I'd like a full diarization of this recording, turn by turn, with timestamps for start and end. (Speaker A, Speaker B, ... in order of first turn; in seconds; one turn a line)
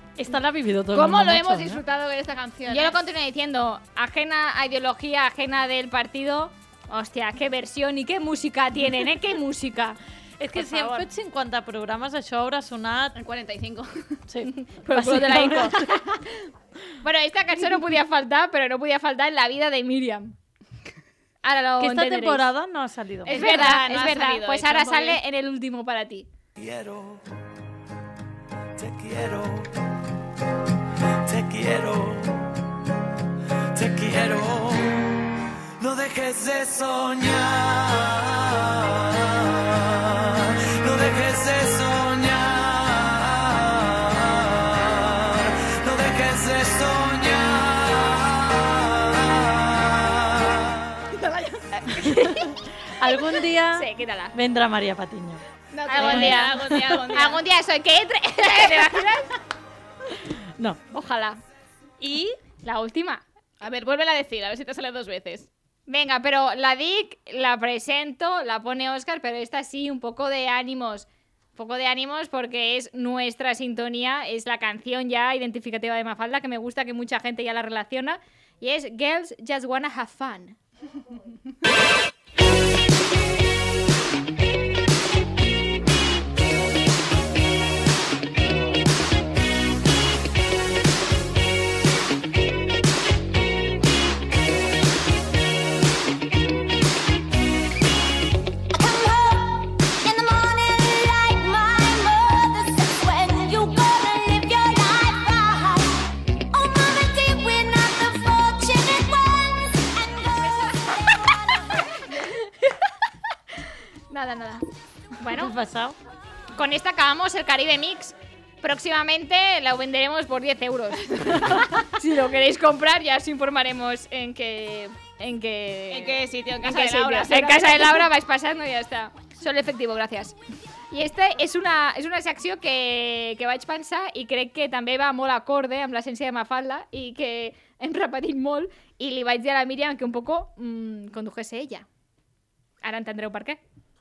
Speaker A: 0.2-1.8
Speaker B: 0.9-3.0
Speaker C: 2.7-10.0
Speaker A: 10.4-13.2
Speaker C: 10.6-11.1
Speaker B: 13.2-14.0
Speaker A: 14.3-15.9
Speaker C: 14.7-15.8
Speaker B: 15.0-16.0
Speaker C: 17.0-20.4
Speaker C: 21.4-22.5
Speaker A: 21.8-23.6
Speaker B: 23.3-25.2
Speaker C: 23.3-26.3
Speaker D: 26.6-27.2
Speaker D: 28.8-29.7
Speaker D: 31.2-32.5
Speaker D: 33.7-51.0
Speaker B: 51.1-52.3
Speaker A: 52.0-55.4
Speaker C: 53.8-54.3
Speaker B: 55.7-57.4
Speaker C: 55.9-56.6
Speaker A: 56.0-57.0
Speaker C: 57.1-59.3
Speaker C: 60.9-61.4
Speaker A: 62.0-62.4
Speaker C: 62.6-63.2
Speaker B: 63.6-65.5
Speaker C: 65.9-80.6
Speaker E: 98.8-106.0
Speaker E: 106.5-110.7
Speaker C: 112.0-112.4
Speaker C: 114.1-114.6
Speaker C: 115.2-115.5
Speaker A: 115.3-116.0
Speaker C: 116.5-130.4
Speaker B: 125.9-128.1
Speaker C: 130.9-141.9
Speaker C: 142.8-143.6